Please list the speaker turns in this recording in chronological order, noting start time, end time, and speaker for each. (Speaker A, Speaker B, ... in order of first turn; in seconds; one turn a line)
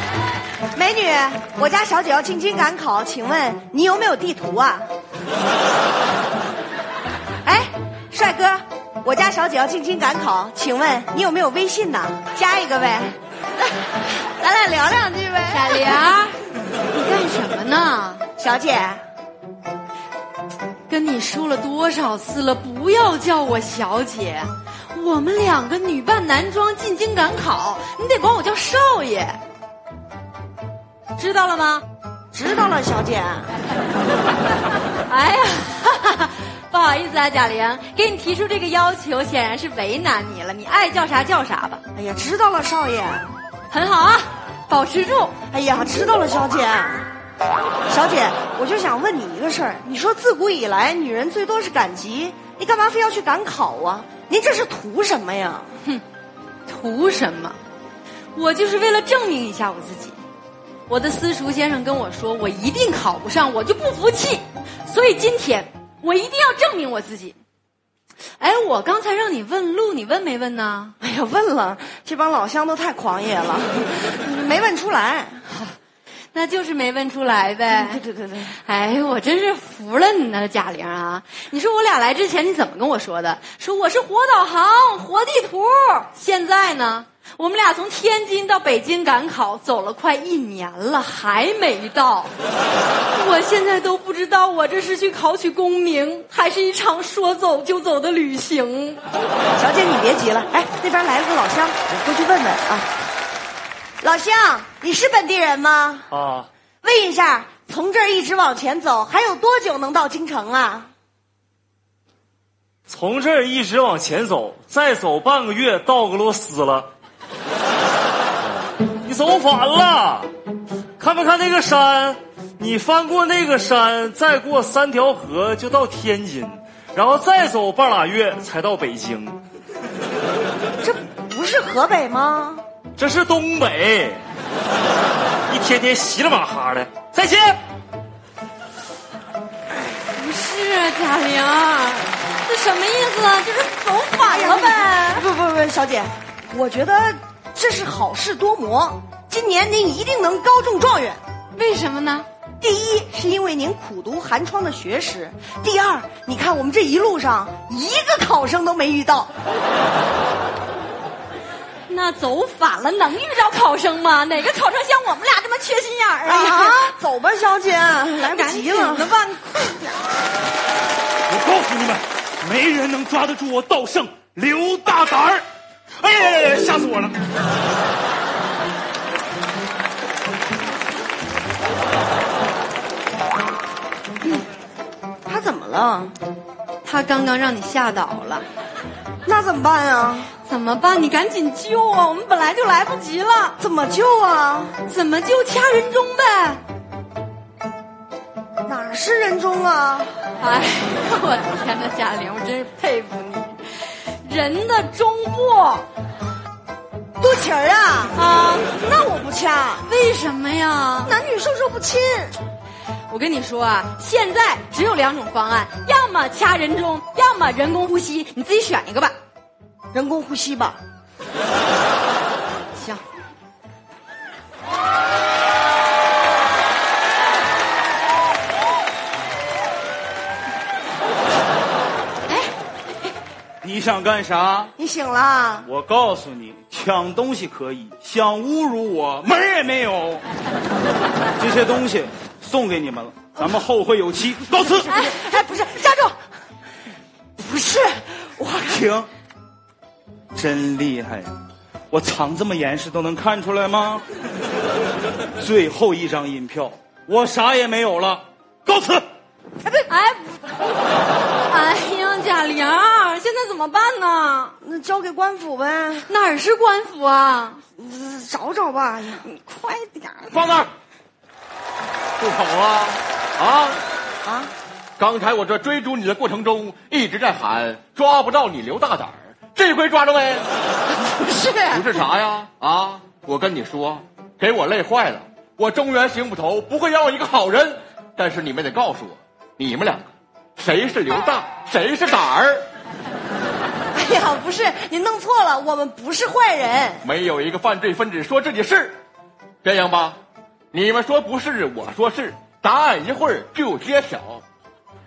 Speaker A: 0.7-4.9
Speaker A: 7.4-16.0
Speaker B: 15.5-16.3
Speaker B: 16.9-18.2
Speaker A: 18.4-19.0
Speaker B: 20.9-29.4
Speaker B: 31.2-31.8
Speaker A: 32.3-33.5
Speaker B: 35.1-41.8
Speaker A: 41.9-43.3
Speaker B: 43.7-45.3
Speaker A: 45.5-47.1
Speaker A: 47.9-55.8
Speaker B: 56.7-57.6
Speaker B: 58.3-60.2
Speaker B: 60.9-67.4
Speaker B: 68.4-71.0
Speaker A: 71.0-75.4
Speaker B: 76.3-78.0
Speaker A: 77.7-78.5
Speaker B: 78.6-92.3
Speaker B: 93.1-99.0
Speaker A: 99.5-102.9
Speaker A: 104.0-106.1
Speaker C: 106.1-106.5
Speaker A: 106.8-110.9
Speaker C: 112.9-116.9
Speaker C: 119.0-120.3
Speaker C: 121.0-129.4
Speaker A: 130.8-132.6
Speaker C: 133.0-134.2
Speaker C: 135.5-137.6
Speaker B: 140.1-145.2
Speaker A: 144.2-151.2
Speaker B: 151.5-152.2
Speaker A: 152.6-159.3
Speaker B: 161.9-166.9
Speaker A: 166.2-169.1
Speaker B: 168.2-169.9
Speaker D: 171.3-175.4
Speaker D: 176.0-177.1
Speaker A: 185.3-186.1
Speaker B: 186.8-188.4
Speaker A: 189.3-190.3
Speaker B: 190.4-193.6
Speaker A: 193.6-194.8
Speaker B: 194.8-196.6
Speaker A: 198.7-200.1
Speaker B: 200.4-205.9
Speaker A: 207.2-209.9
Speaker B: 208.1-208.7
Speaker B: 209.8-211.2
Speaker A: 211.0-212.4
Speaker B: 213.1-219.2
Speaker A: 219.9-220.8
Speaker B: 222.7-223.0
Speaker D: 233.6-234.7
Speaker A: 234.8-235.7
Speaker D: 235.6-240.2
Speaker D: 241.4-244.9
Speaker A: 244.6-246.2
Speaker A: 247.4-248.9
Speaker D: 248.7-249.1
Speaker D: 250.3-251.3
Speaker D: 251.9-254.0
Speaker D: 255.4-259.0
Speaker B: 259.9-260.4
Speaker B: 261.4-264.5
Speaker A: 264.6-266.1
Speaker B: 266.1-267.6
Speaker A: 267.8-270.4
Speaker E: 270.3-270.7
Speaker E: 272.2-273.8
Speaker A: 274.2-274.5
Speaker E: 275.0-280.4
Speaker B: 281.0-281.8
Speaker E: 281.7-292.6
Speaker A: 293.9-297.0
Speaker E: 297.0-299.0
Speaker E: 299.6-300.2
Speaker E: 300.7-304.4